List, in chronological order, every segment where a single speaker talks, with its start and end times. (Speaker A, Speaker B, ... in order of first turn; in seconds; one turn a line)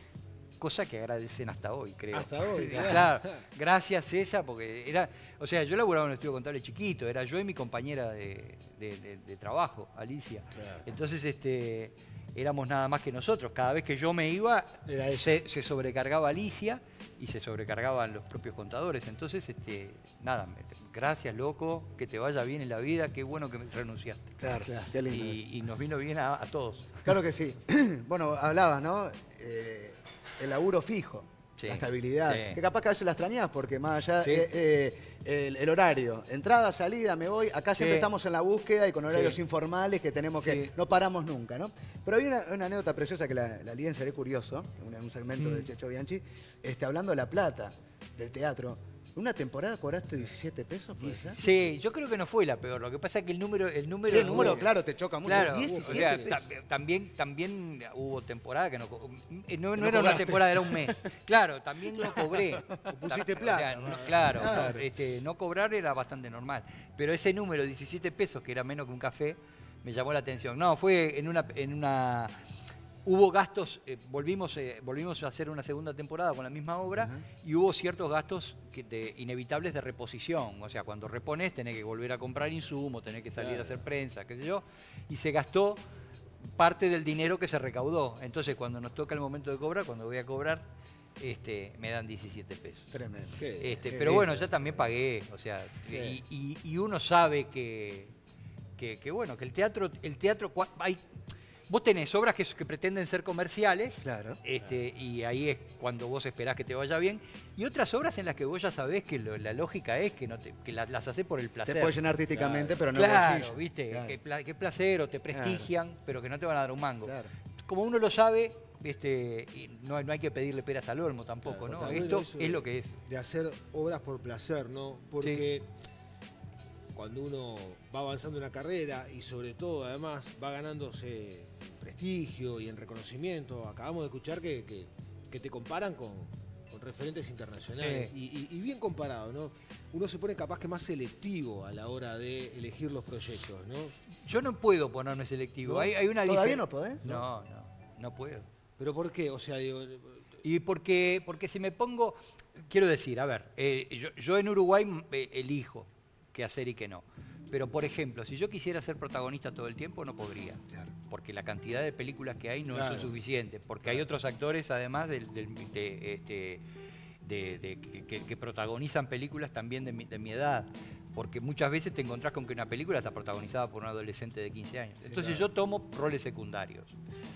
Speaker A: 0.6-24.3
Speaker B: 2.1-3.4
Speaker B: 10.5-10.8
Speaker B: 14.9-15.4
Speaker C: 24.4-25.4
Speaker B: 24.6-24.9
Speaker A: 25.1-27.1
Speaker C: 27.0-51.4
Speaker A: 31.6-32.6
Speaker A: 34.2-34.5
Speaker A: 37.8-38.1
Speaker A: 39.1-39.4
Speaker A: 40.4-40.7
Speaker A: 45.4-45.7
Speaker B: 51.0-51.4
Speaker A: 51.4-54.7
Speaker C: 54.0-56.4
Speaker B: 54.1-54.7
Speaker A: 55.2-72.3
Speaker B: 55.2-56.4
Speaker B: 59.8-60.5
Speaker C: 62.0-62.6
Speaker B: 62.8-64.8
Speaker C: 64.2-64.8
Speaker A: 73.0-85.8
Speaker C: 77.0-77.2
Speaker B: 83.4-83.8
Speaker A: 86.6-93.0
Speaker C: 92.9-94.9
Speaker B: 93.4-94.2
Speaker A: 93.6-98.1
Speaker B: 95.9-96.2
Speaker A: 98.8-101.0
Speaker A: 101.7-112.0
Speaker C: 104.0-104.4
Speaker C: 111.7-114.2
Speaker B: 112.3-112.8
Speaker A: 112.9-123.0
Speaker C: 115.3-115.7
Speaker C: 117.0-117.3
Speaker B: 121.5-125.7
Speaker B: 126.9-143.9
Speaker A: 137.8-138.1
Speaker A: 144.0-148.5
Speaker B: 145.6-145.9
Speaker C: 146.2-147.0
Speaker B: 148.8-150.3
Speaker A: 150.4-166.6
Speaker B: 162.7-163.1
Speaker A: 167.2-176.9
Speaker B: 175.1-175.4